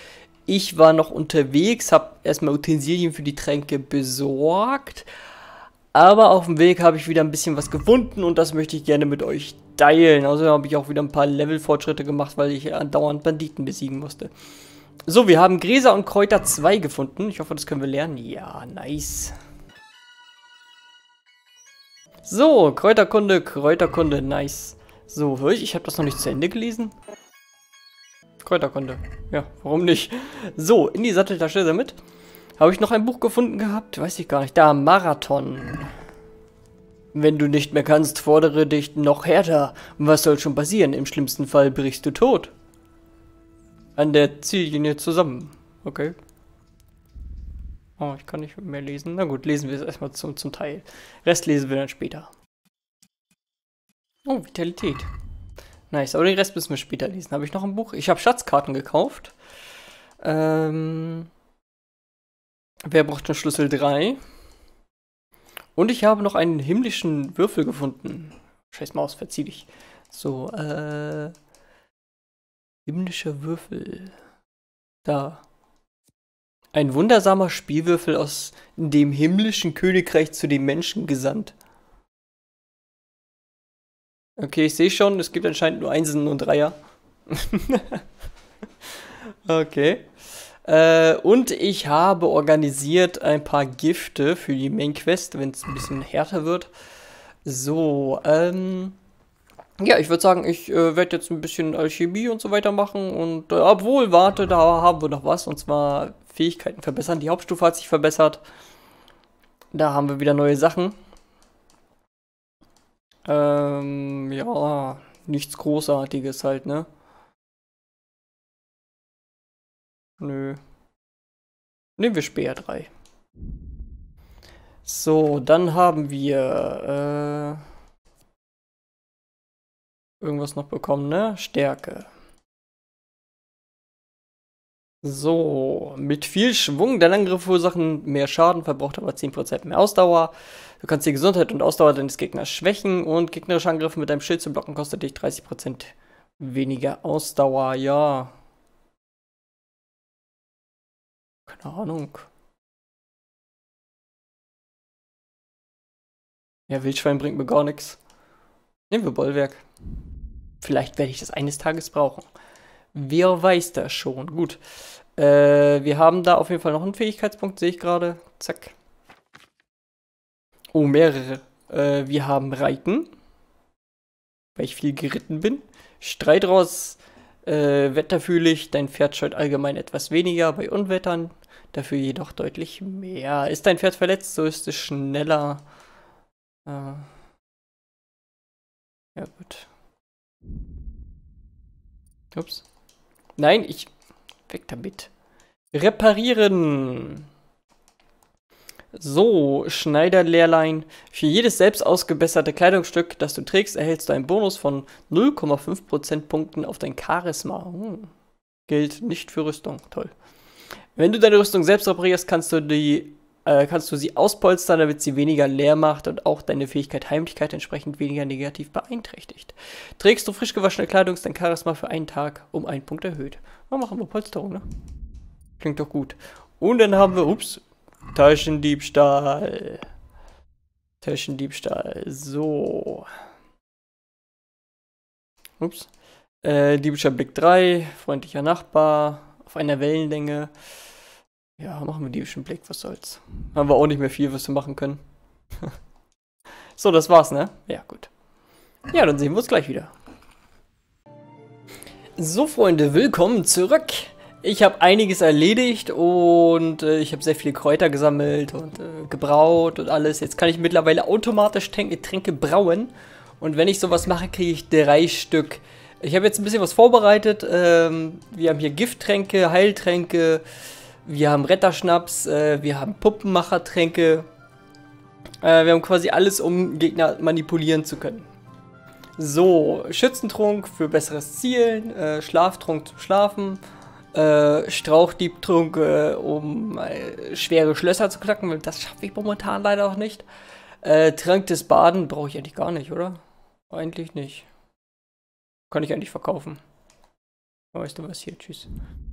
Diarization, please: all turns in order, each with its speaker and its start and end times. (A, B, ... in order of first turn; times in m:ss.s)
0:00.5-0:05.1 A
0:05.9-0:14.3 A
0:15.1-0:19.3 A
0:22.3-0:26.9 A
0:28.4-0:32.0 A
0:32.6-0:35.9 A
0:37.1-0:42.5 A
0:44.0-0:46.2 A
0:48.0-0:52.3 A
0:54.2-0:55.1 A
0:55.9-0:59.4 A
1:00.2-1:01.3 A
1:02.8-1:04.2 A
1:05.8-1:11.3 A
1:12.8-1:14.1 A
1:15.0-1:15.4 A
1:16.7-1:21.5 A
1:24.4-1:26.8 A
1:27.3-1:28.0 A
1:29.2-1:30.1 A
1:30.6-1:36.7 A
1:37.4-1:39.0 A
1:39.8-1:48.4 A
1:49.7-1:51.0 A
1:53.2-1:56.8 A
2:00.2-2:00.6 A
2:02.0-2:02.9 A
2:04.8-2:07.6 A
2:10.2-2:12.1 A
2:15.0-2:28.3 A
2:31.5-2:32.3 A
2:36.7-2:38.0 A
2:38.9-2:39.6 A
2:40.6-2:42.3 A
2:42.9-2:44.6 A
2:45.2-2:48.8 A
2:50.7-2:53.1 A
2:54.6-3:05.6 A
3:06.7-3:07.1 A
3:09.2-3:09.7 A
3:12.3-3:12.6 A
3:13.4-3:13.9 A
3:14.5-3:15.1 A
3:15.7-3:17.3 A
3:18.9-3:28.1 A
3:28.7-3:30.1 A
3:31.0-3:44.6 A
3:45.6-3:49.8 A
3:51.0-3:53.1 A
3:55.6-3:55.9 A
3:56.4-4:00.5 A
4:01.6-4:05.0 A
4:06.8-4:08.1 A
4:08.9-4:09.9 A
4:12.2-4:30.4 A
4:31.0-4:34.3 A
4:35.4-4:38.3 A
4:39.2-4:43.6 A
4:44.1-4:50.2 A
4:50.8-4:54.5 A
4:55.7-4:56.6 A
4:57.7-4:58.7 A